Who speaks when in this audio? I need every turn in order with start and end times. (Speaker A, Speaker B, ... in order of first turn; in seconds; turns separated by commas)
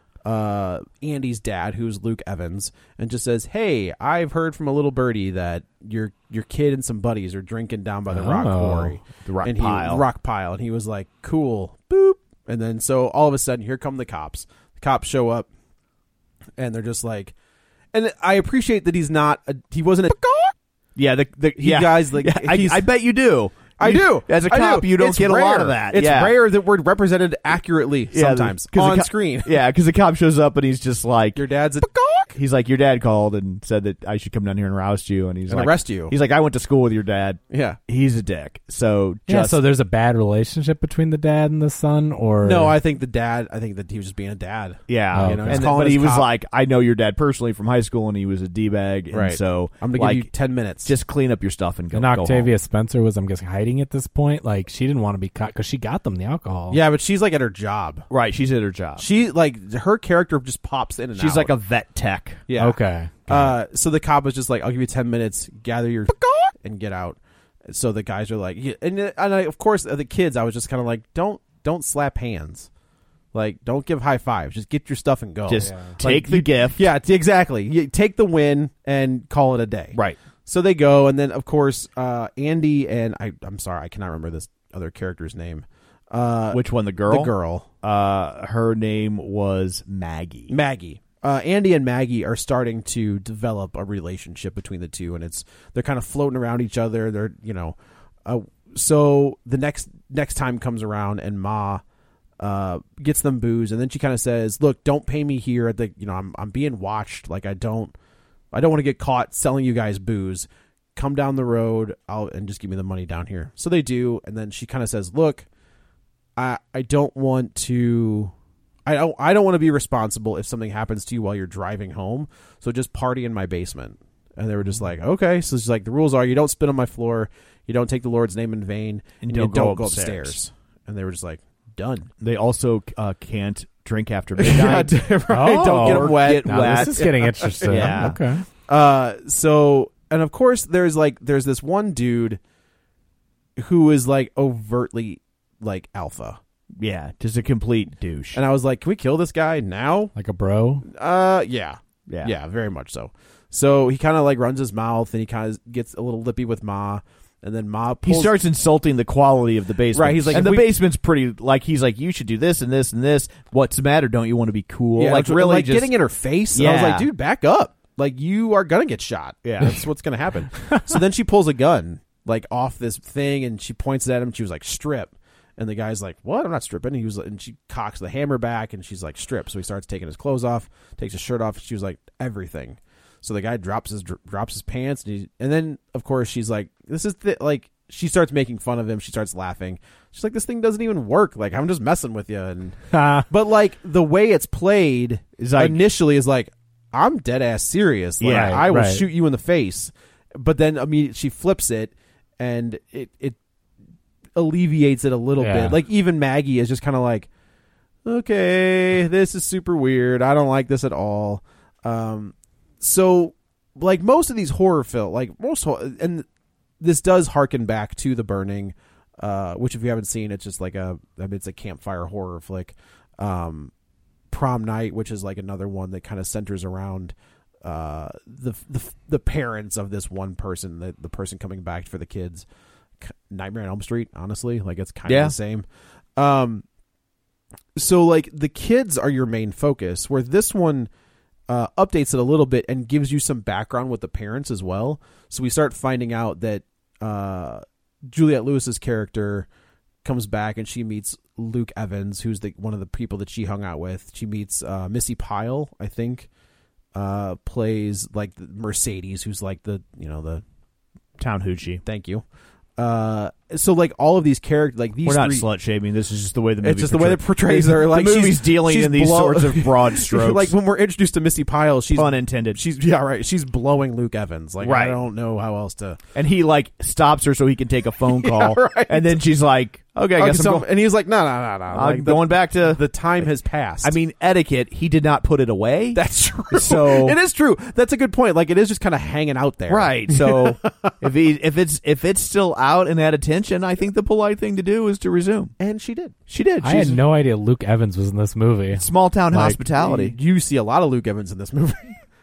Speaker A: 0.2-15.5, Speaker B: 8.1-8.9, Speaker C: 9.2-10.0, Speaker A: 16.6-17.3, Speaker A: 17.9-20.5, Speaker C: 20.9-26.4, Speaker A: 21.6-22.9, Speaker A: 23.8-29.6, Speaker C: 28.1-31.4, Speaker A: 31.3-32.4, Speaker C: 32.3-39.6, Speaker A: 35.5-36.1, Speaker A: 37.5-37.8, Speaker B: 39.3-42.7, Speaker A: 42.4-46.3, Speaker C: 44.9-50.3, Speaker B: 45.1-45.6, Speaker A: 49.1-50.9, Speaker C: 50.8-52.5, Speaker B: 51.9-56.8, Speaker A: 56.7-58.0, Speaker C: 58.1-59.0, Speaker A: 59.0-61.5, Speaker C: 61.1-62.4, Speaker A: 62.5-62.8, Speaker B: 62.6-63.5, Speaker A: 63.3-67.2, Speaker A: 67.7-72.7, Speaker A: 73.3-87.7, Speaker C: 75.5-76.8, Speaker B: 75.6-75.9, Speaker C: 79.9-80.2, Speaker C: 86.5-90.5, Speaker A: 90.5-101.8, Speaker A: 102.4-107.9, Speaker A: 108.5-115.5, Speaker A: 116.4-118.3, Speaker A: 118.8-132.1, Speaker C: 129.2-130.4, Speaker C: 132.2-138.2, Speaker A: 134.4-138.2, Speaker B: 135.3-138.4, Speaker A: 138.7-142.4, Speaker A: 143.6-146.4, Speaker C: 146.8-148.4, Speaker A: 148.3-150.1, Speaker B: 150.2-150.8, Speaker A: 150.9-158.4, Speaker C: 152.1-152.3, Speaker C: 158.0-165.9, Speaker A: 159.9-160.8, Speaker A: 165.0-203.4, Speaker C: 166.5-167.1, Speaker C: 169.4-169.8, Speaker B: 192.9-193.2, Speaker C: 195.4-195.8, Speaker C: 198.2-198.6, Speaker B: 198.3-199.0, Speaker A: 204.3-207.3, Speaker B: 205.4-205.8, Speaker A: 208.0-216.2, Speaker A: 216.8-223.7, Speaker A: 224.3-232.4, Speaker A: 233.0-235.6, Speaker C: 235.1-235.3, Speaker A: 236.2-236.6, Speaker A: 237.8-240.9, Speaker A: 241.5-249.5, Speaker A: 250.0-256.3, Speaker A: 256.9-260.4, Speaker C: 261.2-261.8, Speaker A: 261.8-262.2, Speaker A: 262.8-265.5, Speaker C: 265.0-270.5, Speaker A: 266.6-276.0, Speaker C: 271.9-272.6, Speaker C: 274.6-275.0, Speaker C: 276.1-280.7, Speaker A: 278.1-279.2, Speaker A: 280.1-283.9, Speaker C: 281.7-283.2, Speaker C: 283.8-287.1, Speaker A: 285.9-290.9, Speaker C: 289.7-295.5, Speaker A: 295.6-296.1, Speaker C: 296.3-297.0, Speaker B: 296.6-298.8, Speaker C: 298.7-300.1, Speaker A: 299.3-302.0